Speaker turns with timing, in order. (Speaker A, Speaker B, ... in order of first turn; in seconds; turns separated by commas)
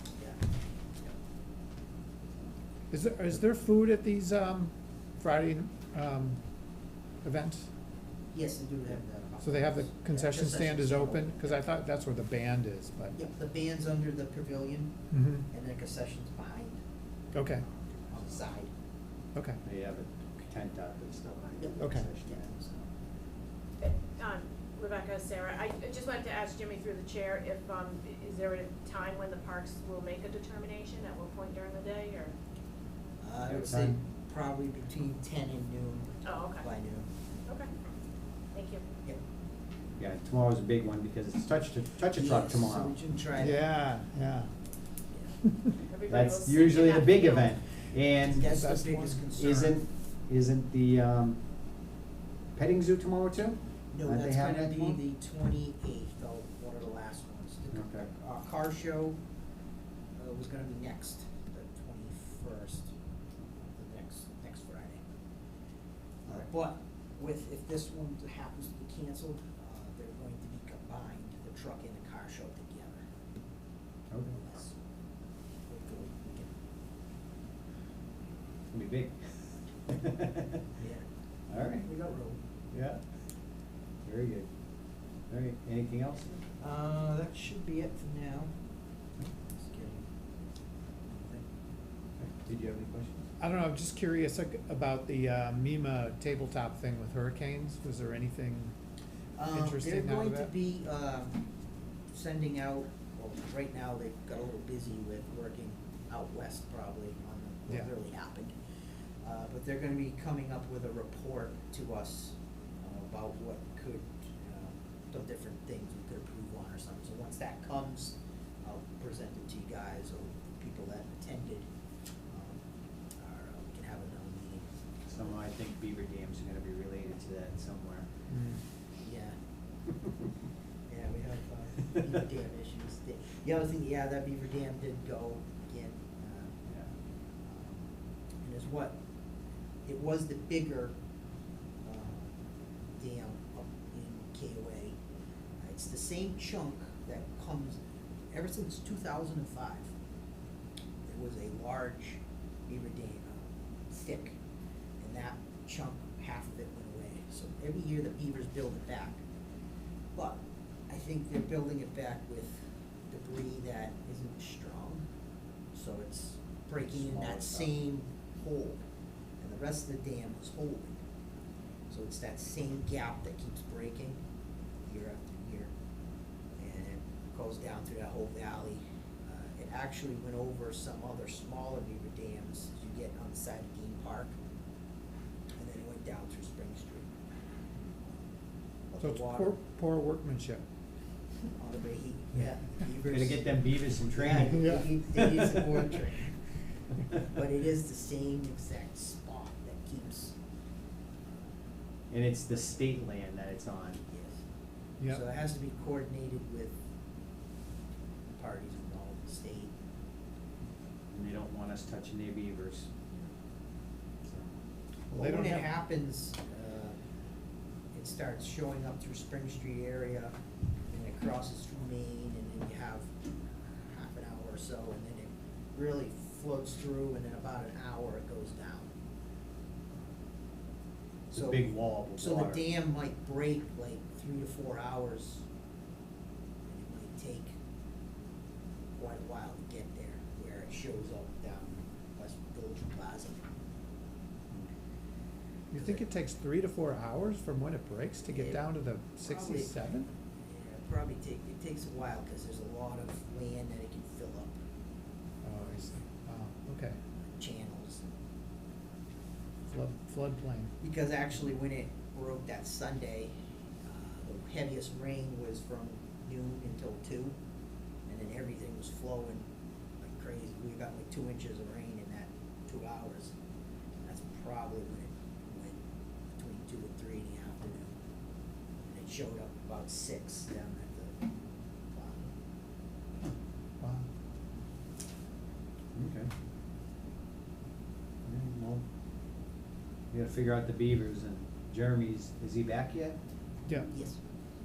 Speaker A: 2.9-6.5, Speaker A: 7.2-7.7, Speaker B: 8.3-11.6, Speaker A: 9.4-13.2, Speaker B: 13.1-16.8, Speaker A: 15.1-15.5, Speaker A: 17.3-17.6, Speaker B: 18.0-18.7, Speaker A: 19.3-19.6, Speaker C: 19.6-22.6, Speaker B: 21.6-22.8, Speaker A: 21.8-22.1, Speaker D: 23.8-32.3, Speaker B: 33.2-37.1, Speaker C: 33.5-34.0, Speaker D: 36.2-36.6, Speaker D: 38.5-38.8, Speaker C: 40.0-43.0, Speaker B: 42.1-43.6, Speaker A: 43.4-44.5, Speaker A: 45.4-45.8, Speaker D: 45.9-47.6, Speaker C: 46.1-48.7, Speaker B: 48.2-49.8, Speaker A: 48.5-49.2, Speaker C: 49.3-51.4, Speaker C: 52.5-55.0, Speaker B: 53.9-59.2, Speaker C: 57.7-58.1, Speaker B: 60.1-62.9, Speaker B: 63.5-65.0, Speaker B: 66.3-73.0, Speaker C: 74.1-74.4, Speaker B: 74.3-74.7, Speaker B: 75.7-76.5, Speaker C: 78.7-80.6, Speaker B: 80.8-81.0, Speaker C: 81.5-81.9, Speaker B: 81.8-82.4, Speaker C: 82.7-83.0, Speaker C: 84.0-84.5, Speaker C: 85.3-86.4, Speaker B: 86.6-88.5, Speaker B: 89.5-90.0, Speaker B: 91.1-91.4, Speaker C: 92.2-93.2, Speaker A: 93.4-98.7, Speaker B: 99.3-101.4, Speaker A: 99.5-100.5, Speaker B: 102.1-108.5, Speaker B: 109.2-121.7, Speaker B: 122.3-122.6, Speaker B: 123.2-124.7, Speaker C: 125.1-128.1, Speaker A: 128.3-128.6, Speaker B: 129.0-129.3, Speaker B: 130.9-136.6, Speaker B: 137.4-137.8, Speaker B: 138.4-138.9, Speaker B: 139.9-140.9, Speaker B: 141.8-142.3, Speaker B: 143.0-144.9, Speaker B: 145.6-147.8, Speaker B: 148.3-149.9, Speaker B: 151.1-154.4, Speaker B: 155.0-159.2, Speaker B: 160.1-165.1, Speaker B: 165.7-168.8, Speaker C: 166.9-167.7, Speaker B: 169.4-171.0, Speaker B: 171.9-174.2, Speaker B: 174.8-175.7, Speaker B: 176.6-184.3, Speaker B: 185.6-187.1, Speaker B: 188.9-189.6, Speaker A: 189.0-190.6, Speaker B: 191.6-196.3, Speaker C: 193.1-195.9, Speaker A: 194.5-194.9, Speaker B: 197.1-200.3, Speaker C: 202.1-204.0, Speaker B: 204.1-204.4, Speaker B: 205.1-206.8, Speaker B: 208.3-209.7, Speaker C: 211.1-212.9, Speaker C: 214.2-214.5, Speaker A: 215.1-215.7, Speaker B: 215.1-216.9, Speaker B: 217.9-220.3, Speaker B: 220.9-223.1, Speaker B: 223.8-228.9, Speaker B: 231.3-235.4, Speaker C: 231.3-232.6, Speaker B: 236.7-237.6, Speaker B: 238.9-243.5, Speaker A: 245.7-250.1, Speaker B: 245.7-246.1, Speaker B: 248.2-248.6, Speaker B: 249.2-249.7, Speaker B: 250.5-254.6, Speaker A: 255.4-257.0, Speaker B: 257.3-258.1, Speaker A: 259.7-260.7, Speaker B: 260.8-263.3, Speaker B: 263.9-267.4, Speaker B: 268.1-269.5, Speaker B: 270.0-273.3, Speaker B: 274.0-275.8, Speaker B: 276.4-277.9, Speaker B: 278.8-281.2, Speaker B: 281.9-282.3, Speaker A: 283.8-284.1, Speaker C: 285.9-286.3, Speaker C: 288.2-288.8, Speaker C: 290.1-293.2, Speaker B: 293.7-294.2